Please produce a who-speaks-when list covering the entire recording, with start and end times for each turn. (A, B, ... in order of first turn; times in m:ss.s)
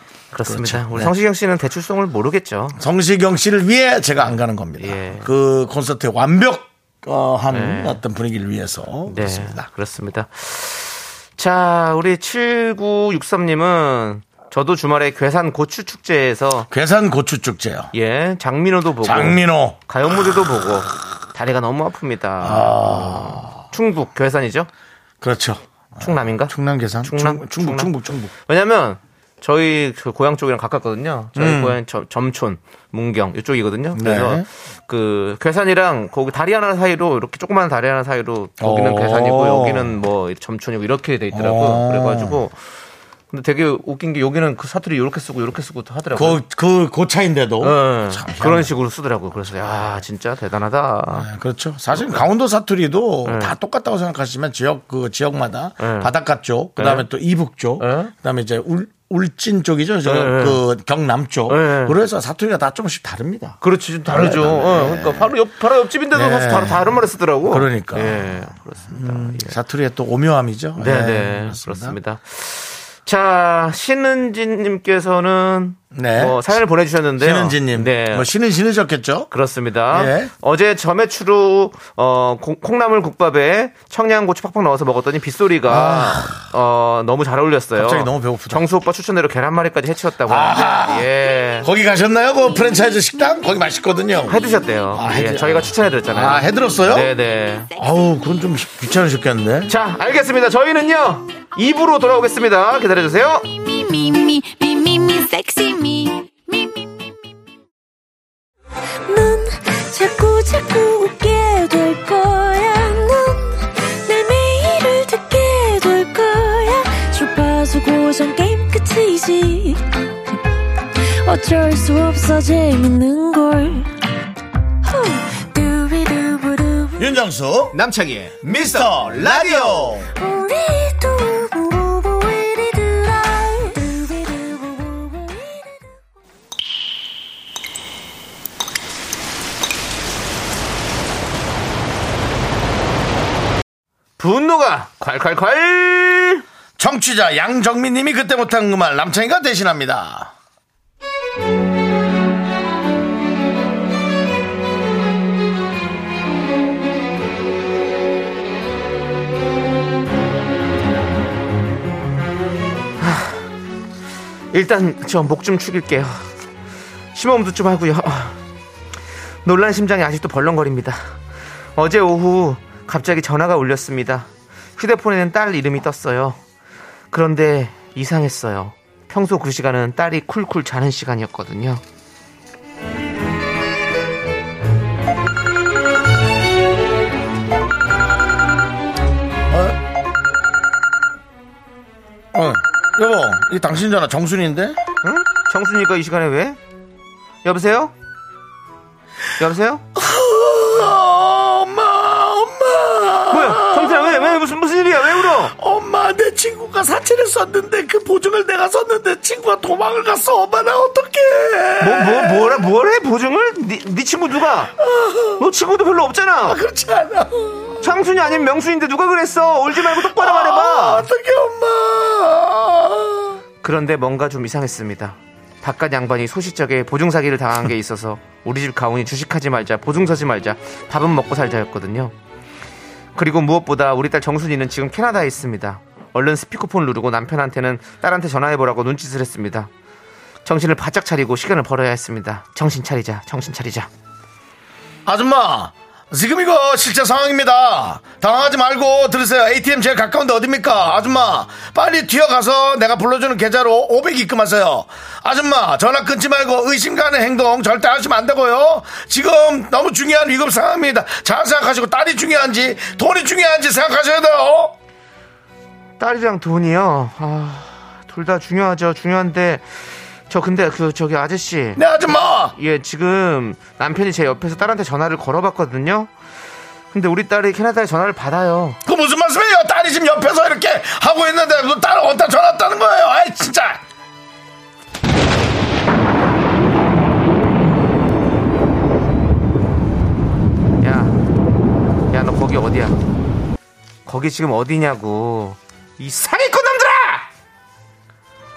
0:00.3-0:02.8 A
0:00.4-0:01.1 B
0:02.8-0:09.7 B
0:04.2-0:05.3 A
0:07.5-0:08.0 A
0:09.1-0:16.7 A
0:16.7-0:17.9 B
0:17.9-0:24.7 A
0:19.0-0:19.8 B
0:22.4-0:23.6 B
0:25.2-0:28.3 B
0:26.0-0:27.9 A
0:28.4-0:42.6 A
0:31.4-0:31.8 B
0:33.9-0:34.4 B
0:38.6-0:40.0 B
0:41.3-0:42.4 B
0:43.3-0:46.4 A
0:46.1-0:48.7 B
0:47.6-0:51.3 A
0:51.1-1:05.3 B
0:52.0-0:52.2 A
0:53.2-0:53.5 A
0:55.8-0:56.1 A
0:56.8-0:57.0 A
0:57.8-0:58.1 A
1:00.0-1:00.6 A
1:01.5-1:02.0 A
1:03.6-1:09.6 A
1:06.1-1:12.0 B
1:10.8-1:18.3 A
1:15.9-1:16.6 B
1:17.2-1:19.3 B
1:19.3-1:31.7 A
1:19.9-1:20.3 B
1:25.7-1:26.5 B
1:27.8-1:28.6 B
1:30.3-1:34.4 B
1:34.3-1:37.7 A
1:34.9-1:37.1 B
1:37.7-1:39.7 B
1:39.7-1:43.4 A
1:43.4-1:47.1 C
1:49.1-2:00.0 C
2:01.0-2:03.9 C
2:04.8-2:07.1 C
2:07.0-2:07.8 B
2:07.7-2:10.0 A
2:08.4-2:10.1 B
2:10.2-2:15.8 C
2:24.2-2:26.4 A
2:26.8-2:30.3 B
2:43.0-2:43.4 A
2:44.5-2:46.2 A
2:47.1-2:48.4 A
2:49.4-2:51.1 A
2:51.8-2:56.4 A
2:57.1-3:01.8 A
3:09.5-3:09.8 B
3:12.3-3:14.8 B
3:15.0-3:16.6 A
3:17.4-3:17.9 A
3:19.4-3:19.8 A
3:19.9-3:24.4 B
3:23.3-3:25.5 A
3:25.2-3:32.7 B
3:31.8-3:34.7 A
3:34.8-3:35.4 B
3:35.4-3:36.6 A
3:36.4-3:37.9 B
3:37.8-3:41.0 A
3:39.7-3:43.4 B
3:43.6-3:52.1 A
3:53.1-3:59.7 A
4:00.4-4:03.9 A
4:05.0-4:24.7 B
4:26.0-4:29.6 A
4:30.3-4:31.9 A
4:31.8-4:32.6 B
4:32.5-4:36.1 A
4:36.9-4:38.8 A
4:38.8-4:43.8 B
4:50.8-4:51.2 A
4:52.1-4:53.0 A
4:54.0-4:57.3 A